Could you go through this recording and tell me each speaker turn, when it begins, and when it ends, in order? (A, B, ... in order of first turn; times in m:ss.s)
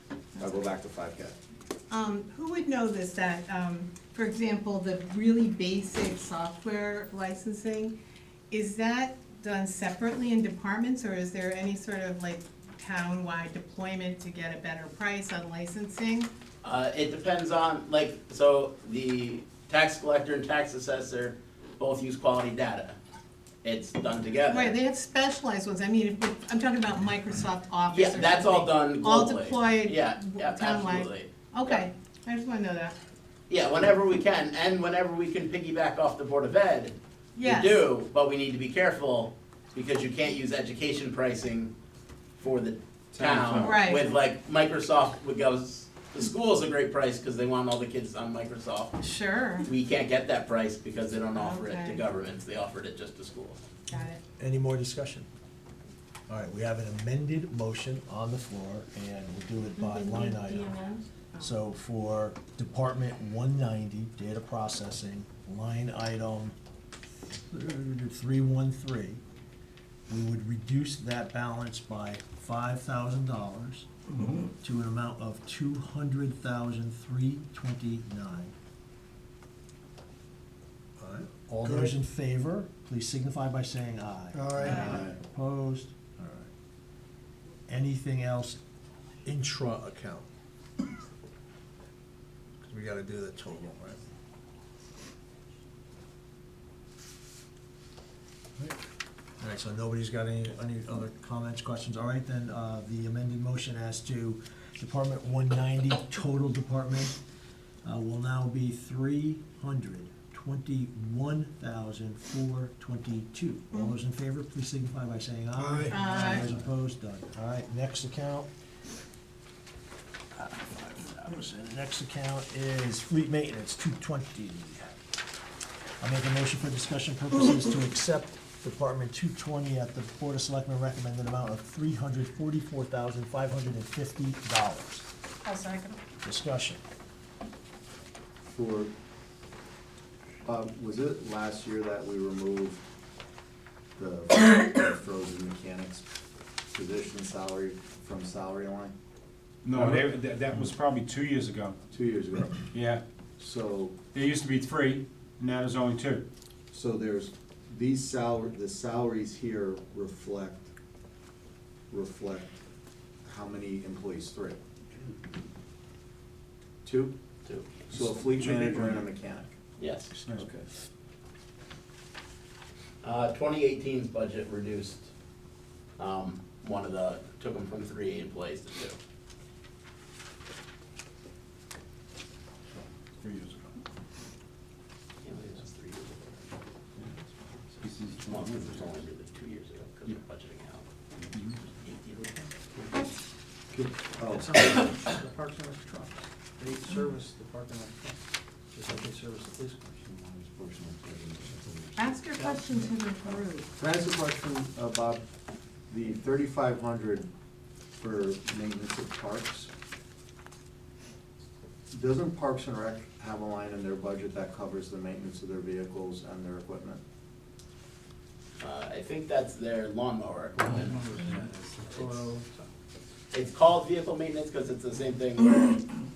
0:00.3-0:00.6 A
0:00.4-0:01.4 B
0:01.9-0:08.0 A
0:08.5-0:16.3 A
0:16.6-0:23.0 C
0:23.6-0:24.7 C
0:24.5-0:33.0 A
0:27.9-0:31.8 C
0:33.5-0:41.7 C
0:37.4-0:37.8 A
0:42.4-0:49.0 C
0:43.1-0:43.9 D
0:43.6-0:44.0 A
0:49.0-0:49.7 A
0:49.6-0:53.6 C
0:51.3-0:52.1 A
0:53.9-0:54.2 A
0:53.9-0:55.3 E
0:56.3-1:00.8 E
0:59.8-1:01.5 A
1:01.4-1:06.5 E
1:07.5-1:09.2 E
1:10.1-1:13.9 E
1:14.4-1:18.5 E
1:21.0-1:26.5 E
1:24.4-1:24.8 F
1:24.6-1:25.2 B
1:27.7-1:28.6 E
1:29.2-1:30.3 E
1:32.6-1:34.0 E
1:39.4-1:47.2 E
1:47.8-1:58.5 E
1:55.9-1:56.4 A
2:00.3-2:04.8 E
2:06.0-2:15.1 E
2:15.4-2:16.0 A
2:16.2-2:16.8 E
2:18.5-2:18.9 B
2:20.4-2:22.8 B
2:24.0-2:26.0 B
2:26.7-2:28.9 B
2:29.6-2:31.8 D
2:31.9-2:32.6 B
2:32.7-2:33.0 D
2:33.4-2:33.9 B
2:34.1-2:36.2 D
2:36.7-2:40.7 B
2:41.9-2:42.5 B
2:43.2-2:44.6 B
2:46.8-2:47.2 B
2:47.9-2:49.5 B
2:48.0-2:49.0 D
2:49.8-2:50.1 C
2:50.2-2:50.5 D
2:50.3-2:50.6 B
2:53.0-2:55.1 C
2:56.0-2:59.0 C
3:03.2-3:03.8 D
3:05.2-3:06.4 C
3:07.8-3:08.1 F
3:07.8-3:08.9 D
3:08.3-3:10.8 C
3:11.8-3:12.3 C
3:13.7-3:14.6 B
3:14.2-3:18.2 F
3:18.7-3:22.8 F
3:22.0-3:23.7 A
3:23.8-3:25.2 B
3:25.9-3:27.3 B
3:28.0-3:29.7 B
3:31.9-3:37.0 B
3:38.6-3:41.4 C
3:40.6-3:42.6 F
3:41.9-3:42.3 C
3:43.3-3:45.8 C